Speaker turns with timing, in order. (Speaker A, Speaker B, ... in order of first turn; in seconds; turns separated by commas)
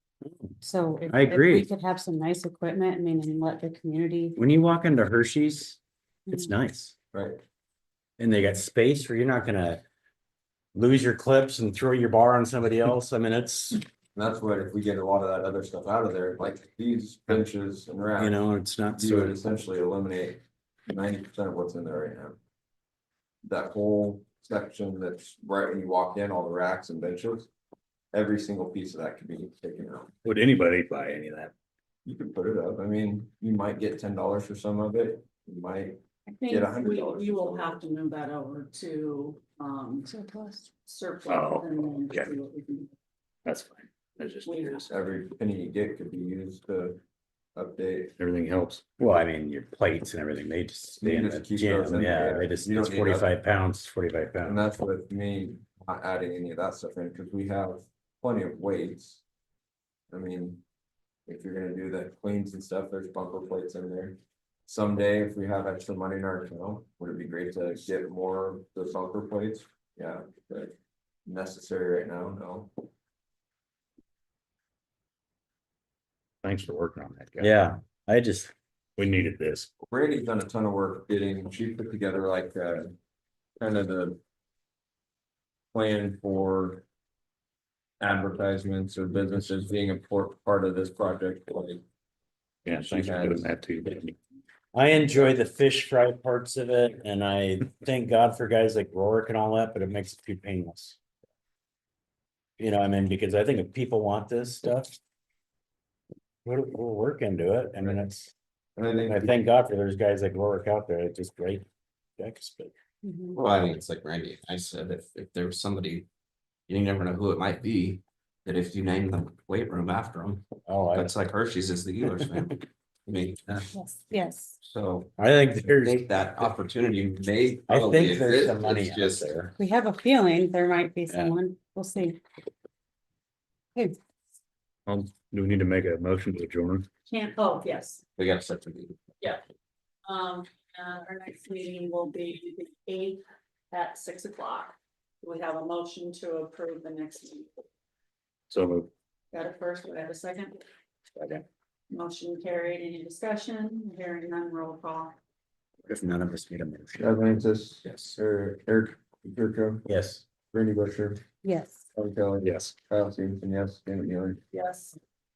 Speaker A: 0.2-0.5, Speaker B: 0.6-4.4, Speaker A: 1.1-1.7, Speaker A: 4.3-5.8, Speaker B: 6.3-6.5, Speaker A: 6.3-6.9, Speaker C: 7.1-7.4, Speaker A: 8.2-9.8, Speaker A: 10.7-13.8, Speaker C: 14.1-18.4, Speaker A: 18.2-19.4, Speaker C: 18.9-22.4, Speaker C: 23.4-27.5, Speaker C: 28.1-30.1, Speaker D: 30.2-31.5, Speaker C: 32.0-37.8, Speaker E: 36.3-40.1, Speaker B: 40.0-40.6, Speaker E: 40.8-42.9, Speaker D: 41.3-42.3, Speaker D: 43.4-44.9, Speaker E: 44.4-44.9, Speaker C: 44.9-47.0, Speaker C: 47.5-48.1, Speaker D: 48.2-48.9, Speaker A: 49.0-54.6, Speaker C: 51.0-53.3, Speaker C: 54.4-59.2, Speaker C: 60.1-60.6, Speaker C: 61.2-70.7, Speaker C: 71.2-72.7, Speaker D: 76.4-77.5, Speaker A: 77.4-78.5, Speaker D: 79.0-79.7, Speaker C: 79.8-82.9, Speaker C: 83.6-84.2, Speaker C: 85.7-86.8, Speaker C: 88.0-91.8, Speaker D: 92.6-94.2, Speaker C: 92.7-93.5, Speaker A: 94.7-101.0, Speaker A: 102.6-105.0, Speaker A: 106.4-108.3, Speaker C: 108.8-109.3, Speaker A: 109.0-111.7, Speaker A: 112.2-112.7, Speaker B: 113.0-113.4, Speaker F: 113.3-116.1, Speaker F: 116.7-123.7, Speaker A: 120.7-121.1, Speaker B: 123.7-124.6, Speaker F: 124.6-125.1, Speaker A: 125.2-126.5, Speaker F: 125.8-129.2, Speaker A: 127.7-129.5, Speaker B: 129.6-132.2, Speaker A: 131.1-131.3, Speaker D: 134.9-136.9, Speaker E: 137.1-138.0, Speaker F: 138.2-139.0, Speaker E: 140.0-147.6, Speaker D: 148.5-148.9, Speaker E: 149.3-150.6, Speaker D: 151.2-151.4, Speaker E: 151.9-155.2, Speaker A: 155.8-157.1, Speaker C: 157.0-159.8, Speaker A: 159.8-160.2, Speaker C: 160.5-161.2, Speaker B: 161.4-161.8, Speaker C: 161.9-164.4, Speaker D: 162.4-162.7, Speaker E: 164.5-165.0